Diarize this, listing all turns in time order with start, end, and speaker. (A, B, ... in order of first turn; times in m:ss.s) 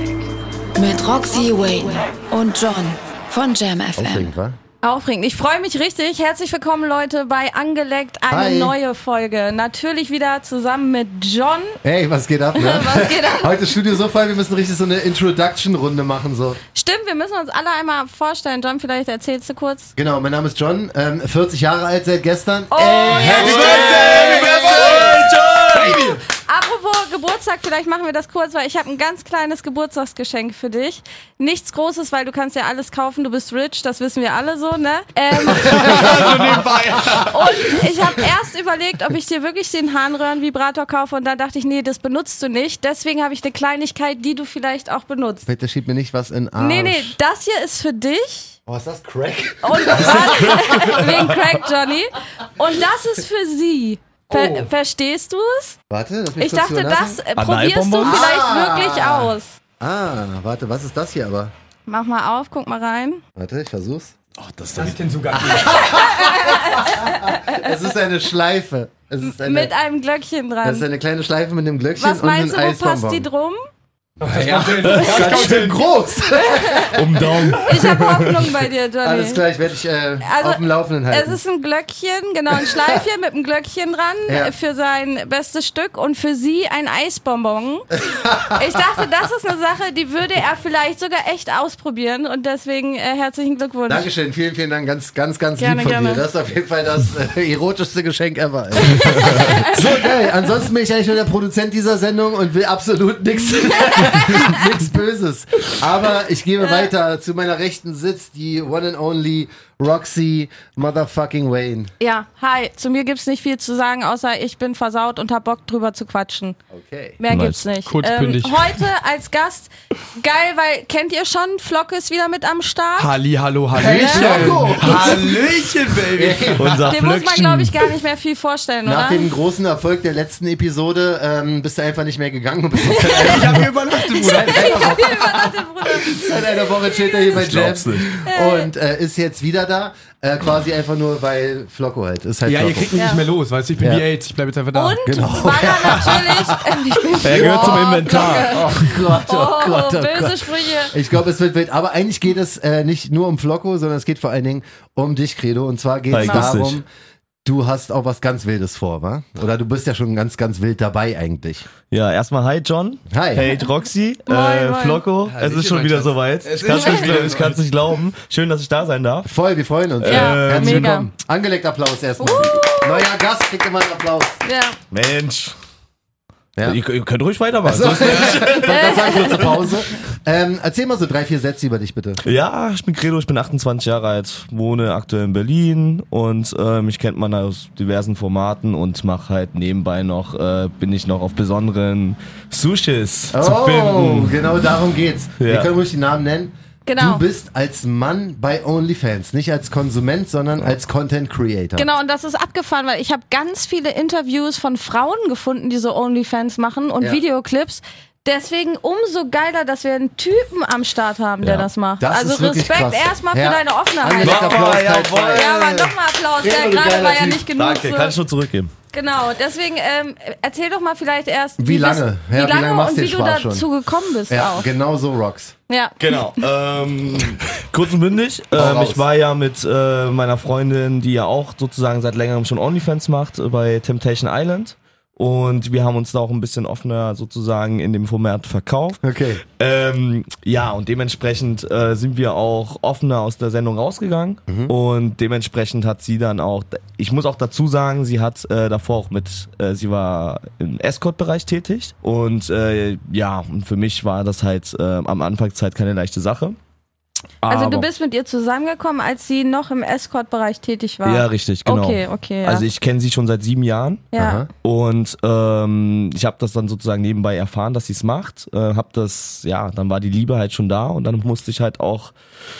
0:00.8-0:04.3 A
0:03.9-0:04.6 B
0:04.8-0:11.8 C
0:08.3-0:08.7 B
0:11.8-0:16.6 B
0:12.5-0:13.5 C
0:16.7-0:19.9 C
0:20.0-0:25.2 B
0:22.7-0:25.0 C
0:23.1-0:26.2 D
0:23.1-0:26.1 E
0:25.9-0:36.1 C
0:35.5-0:37.9 D
0:35.8-0:36.0 B
0:37.2-0:45.5 C
0:45.4-0:47.2 B
0:46.6-0:48.6 C
0:48.6-0:51.1 B
0:49.6-0:55.8 C
0:50.2-0:51.2 E
0:54.3-0:54.7 D
0:55.9-0:57.2 B
0:56.4-0:59.6 C
0:57.4-0:58.3 E
0:58.0-1:01.5 B
1:01.9-1:03.2 C
1:03.4-1:04.2 B
1:04.5-1:04.9 E
1:04.7-1:05.9 D
1:04.9-1:09.7 B
1:05.7-1:07.8 C
1:09.2-1:10.8 C
1:10.6-1:13.3 B
1:12.0-1:13.6 C
1:14.2-1:15.9 D
1:14.2-1:17.4 B
1:14.8-1:15.8 E
1:16.3-1:17.0 C
1:16.8-1:18.5 E
1:17.5-1:19.4 C
1:19.0-1:21.4 B
1:20.2-1:34.0 C
1:22.7-1:23.0 B
1:24.3-1:24.5 B
1:28.0-1:28.6 B
1:33.9-1:51.9 B
1:35.6-1:36.2 C
1:38.8-1:39.8 C
1:43.6-1:44.7 C
1:52.0-1:56.6 C
1:56.7-1:57.2 B
1:57.2-2:03.1 C
1:57.3-1:57.6 E
1:57.8-1:58.8 D
2:03.0-2:06.9 D
2:03.7-2:05.4 B
2:03.8-2:05.2 C
2:06.1-2:06.7 B
2:06.6-2:07.8 E
2:06.9-2:09.3 C
2:08.8-2:22.9 B
2:12.8-2:13.4 C
2:13.1-2:15.4 D
2:14.0-2:17.4 C
2:17.3-2:18.0 E
2:18.2-2:18.7 C
2:22.4-2:25.0 D
2:22.9-2:23.2 C
2:23.8-2:24.1 B
2:24.7-2:30.9 C
2:25.0-2:36.8 B
2:27.2-2:29.0 E
2:36.1-2:36.8 E
2:36.1-2:36.5 C
2:37.4-2:41.7 B
2:41.9-2:49.3 E
2:43.1-2:43.6 B
2:44.3-2:45.0 C
2:45.2-2:47.6 D
2:46.7-2:47.0 C
2:49.2-2:54.4 B
2:50.0-2:51.0 E
2:50.0-2:51.1 C
2:52.2-2:53.1 C
2:54.4-2:54.8 C
2:54.9-2:55.5 E
2:56.6-2:59.6 E
2:57.6-3:02.2 B
2:58.5-2:59.5 C
3:02.2-3:14.5 E
3:13.3-3:21.9 B
3:15.4-3:15.7 E
3:16.8-3:17.2 C
3:21.8-3:34.8 C
3:32.0-3:37.4 B
3:34.2-3:35.8 E
3:35.3-3:38.2 C
3:37.5-3:38.7 E
3:38.9-3:44.7 C
3:41.6-3:43.7 B
3:44.3-3:45.5 B
3:45.7-3:46.2 C
3:46.0-3:59.0 E
3:48.5-3:49.0 B
3:59.0-3:59.4 B
3:59.6-4:16.6 E
4:04.5-4:04.7 B
4:17.4-4:17.9 E
4:17.5-4:22.6 C
4:21.0-4:32.1 E
4:24.1-4:24.4 C
4:24.2-4:24.5 B